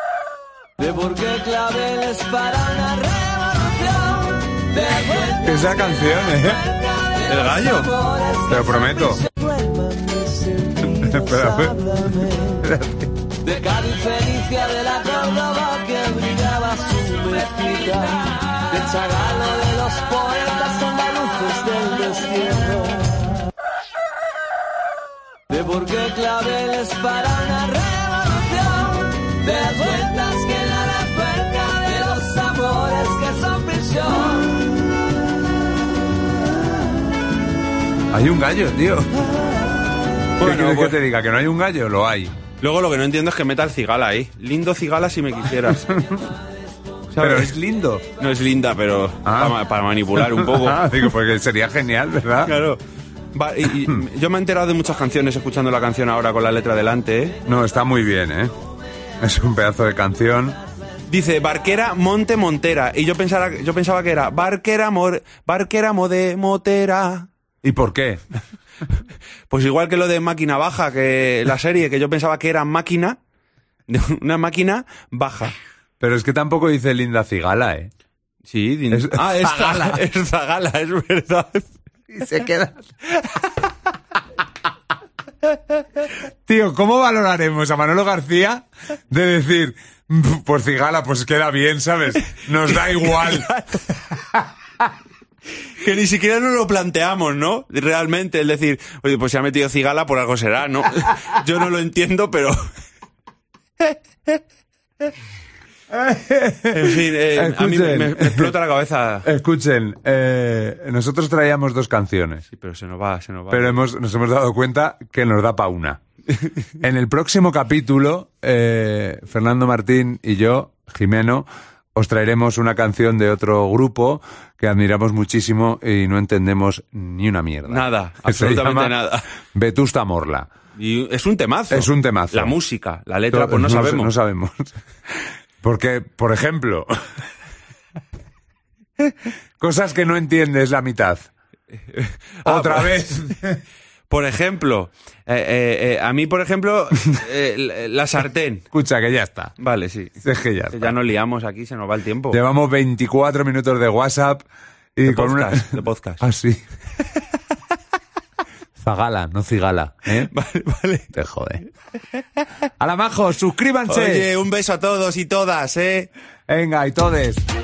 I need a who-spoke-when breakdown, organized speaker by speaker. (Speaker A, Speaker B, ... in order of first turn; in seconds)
Speaker A: 0.8-12.7, 13.4-23.4, 25.5-34.7
Speaker B: 5.4-6.6, 8.5-9.2, 11.1-13.1, 38.1-39.3, 40.4-42.3, 45.7-46.3, 47.2-48.0, 49.2-49.6, 50.2-52.6, 57.5-58.5, 59.2-60.6, 67.6-68.2, 76.0-77.9, 78.9-80.0, 82.1-82.9, 86.5-94.9, 105.9-108.5, 109.2-112.5, 113.5-116.0, 116.8-129.0, 129.5-130.5, 131.7-132.5, 133.3-137.1, 139.6-141.3, 142.4-143.6, 148.7-149.5, 150.2-150.9, 152.3-154.4, 155.0-156.6, 158.8-160.3, 161.1-161.6, 162.8-164.3, 166.5-167.4
Speaker C: 7.2-7.9, 40.4-41.0, 42.6-45.9, 47.1-47.5, 48.2-50.9, 52.5-52.8, 53.3-57.4, 61.1-67.3, 69.5-73.2, 73.9-75.5, 78.5-81.7, 92.7-93.8, 95.8-102.7, 103.8-104.4, 106.7-109.3, 112.5-113.8, 127.7-129.3, 130.8-134.1, 141.9-143.4, 144.1-148.7, 149.6-150.2, 150.7-152.4, 155.1-156.2, 160.3-161.1, 163.9-166.1